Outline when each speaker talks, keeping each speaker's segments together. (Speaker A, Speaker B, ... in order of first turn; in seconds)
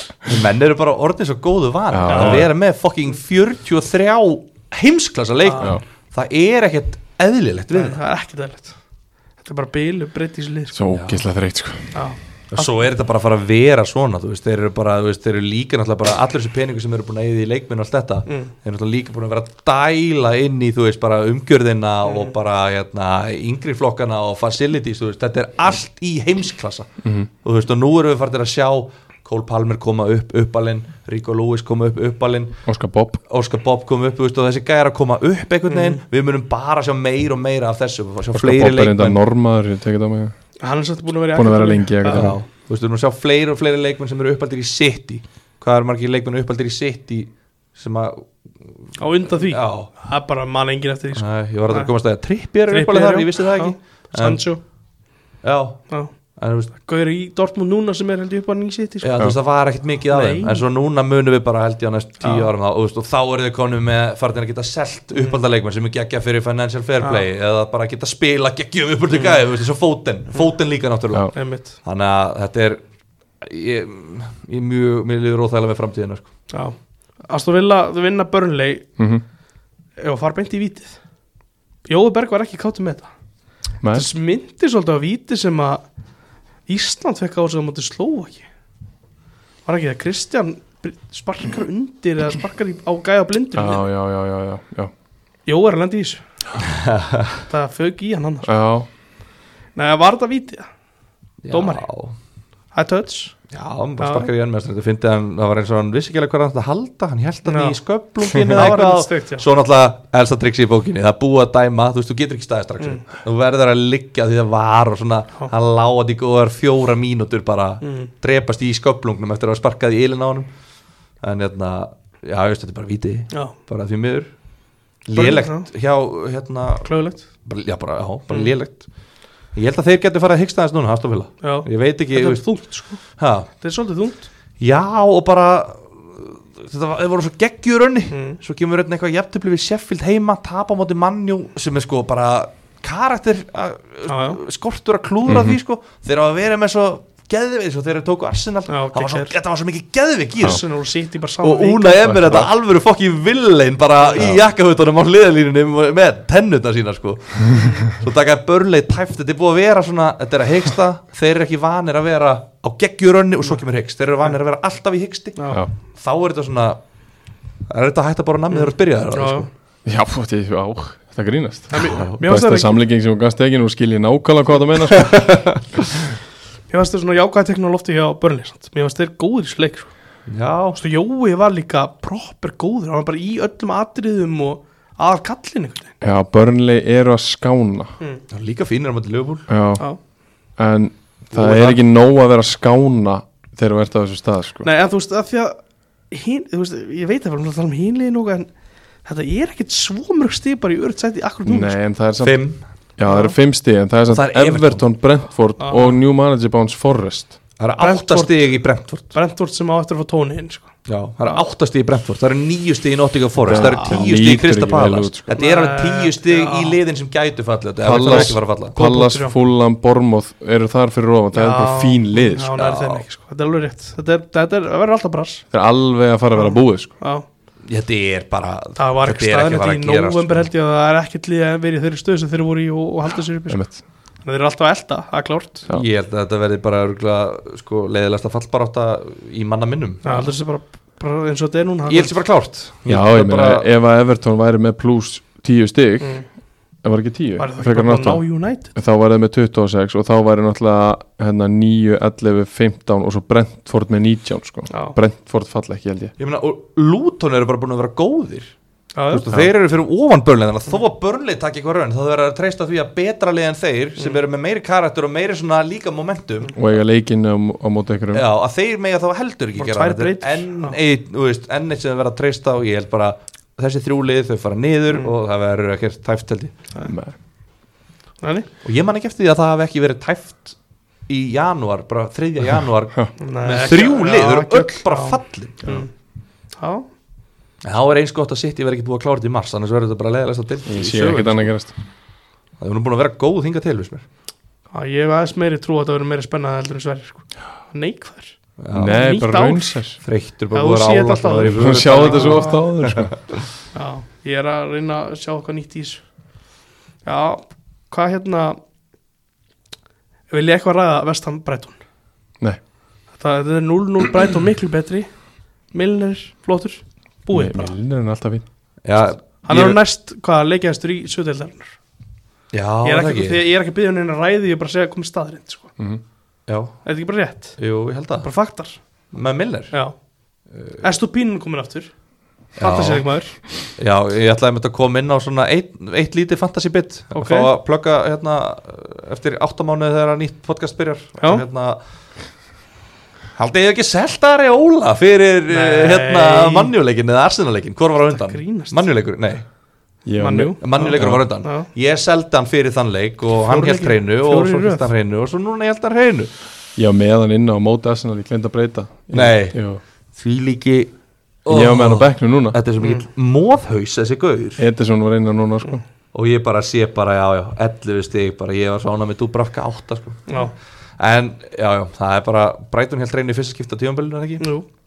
Speaker A: 0.2-8.0, 10.9-11.2, 12.5-26.9, 27.4-32.6, 33.3-39.2, 42.1-49.9, 51.1-54.4, 55.4-55.8, 56.4-56.7, 59.0-72.8, 73.4-76.3, 96.6-97.4, 101.4-102.2, 103.5-120.5, 121.2-124.3, 125.1-126.9, 127.5-128.9, 129.6-132.4, 133.2-133.5, 134.6-150.6, 151.4-165.4, 165.9-166.8, 167.7-169.5, 171.8-172.2, 180.3-180.8, 188.3-189.5, 191.3-191.8, 202.2-202.6, 204.1-204.8, 207.6-209.1, 210.9-218.8, 222.6-223.0, 227.7-230.5, 235.7-240.3, 241.9-243.7, 256.2-258.5, 259.1-266.6, 268.1-276.6, 278.6-285.6, 287.6-291.5, 292.6-294.1, 298.6-299.0, 300.0-303.4, 318.8-319.8, 322.5-323.4, 326.5-326.8, 327.6-328.3, 329.1-329.8, 330.5-330.8, 332.6-333.0, 333.8-341.8, 343.4-349.4, 350.6-356.3, 359.1-359.6, 360.1-360.9, 361.4-364.6, 366.1-370.4, 371.0-374.5
Speaker B: 1.9-2.5, 10.7-11.9, 32.7-33.2, 38.3-40.3, 41.3-42.4, 79.0-79.2, 83.8-84.1, 93.5-94.9, 98.5-98.9, 145.3-145.6, 152.1-152.5, 169.8-175.5, 186.0-187.9, 189.5-189.8, 190.6-194.7, 201.4-202.4, 203.0-207.4, 213.5-215.4, 217.8-222.6, 225.5-226.9, 233.5-233.8, 242.9-246.2, 246.8-256.1, 266.6-268.2, 276.9-277.1, 290.7-291.7, 298.7-300.0, 301.5-303.1, 317.3-318.4, 350.1-351.2, 356.8-359.8, 361.5-362.6, 364.6-365.8
Speaker C: 2.1-2.5, 5.4-5.8, 7.7-8.8, 9.4-10.8, 11.9-12.7, 22.1-22.3, 35.7-36.0, 40.6-42.3, 49.0-51.9, 52.7-54.6, 56.8-59.2, 60.1-60.6, 62.2-62.5, 71.3-71.7, 76.5-78.9, 80.0-81.0, 81.9-83.1, 83.9-85.8, 86.7-88.5, 89.7-93.8, 95.5-96.2, 97.5-98.5, 99.8-100.7, 101.5-101.9, 102.7-103.4, 104.0-104.3, 107.5-109.5, 117.8-118.1, 125.2-125.7, 126.8-127.2, 131.4-134.3, 138.1-138.4, 144.1-144.4, 148.7-149.3, 150.4-152.2, 157.6-157.8, 165.4-165.7, 168.5-169.5, 171.7-172.8, 176.7-179.9, 180.8-185.9, 194.6-195.6, 196.1-198.5, 199.1-201.8, 203.1-203.4, 205.6-206.0, 207.8-208.5, 209.1-210.7, 213.5-214.2, 215.3-216.8, 218.0-219.3, 221.3-225.4, 226.3-227.2, 228.8-235.7, 240.0-242.2, 247.4-248.7, 254.7-255.0, 258.9-259.2, 269.6-270.8, 278.2-278.5, 283.2-285.9, 286.6-286.9, 294.7-298.4, 298.9-299.9, 300.5-302.6, 303.7-306.0, 307.1-308.6, 310.3-311.8, 313.2-315.1, 315.7-317.8, 319.4-321.8, 322.8-325.7, 326.9-327.6, 328.2-328.8, 330.8-331.9, 332.6-333.4, 337.1-337.5, 345.5-346.7, 348.1-348.9, 350.2-351.7, 353.4-354.9, 362.8-363.1, 370.3-370.5, 374.4-374.6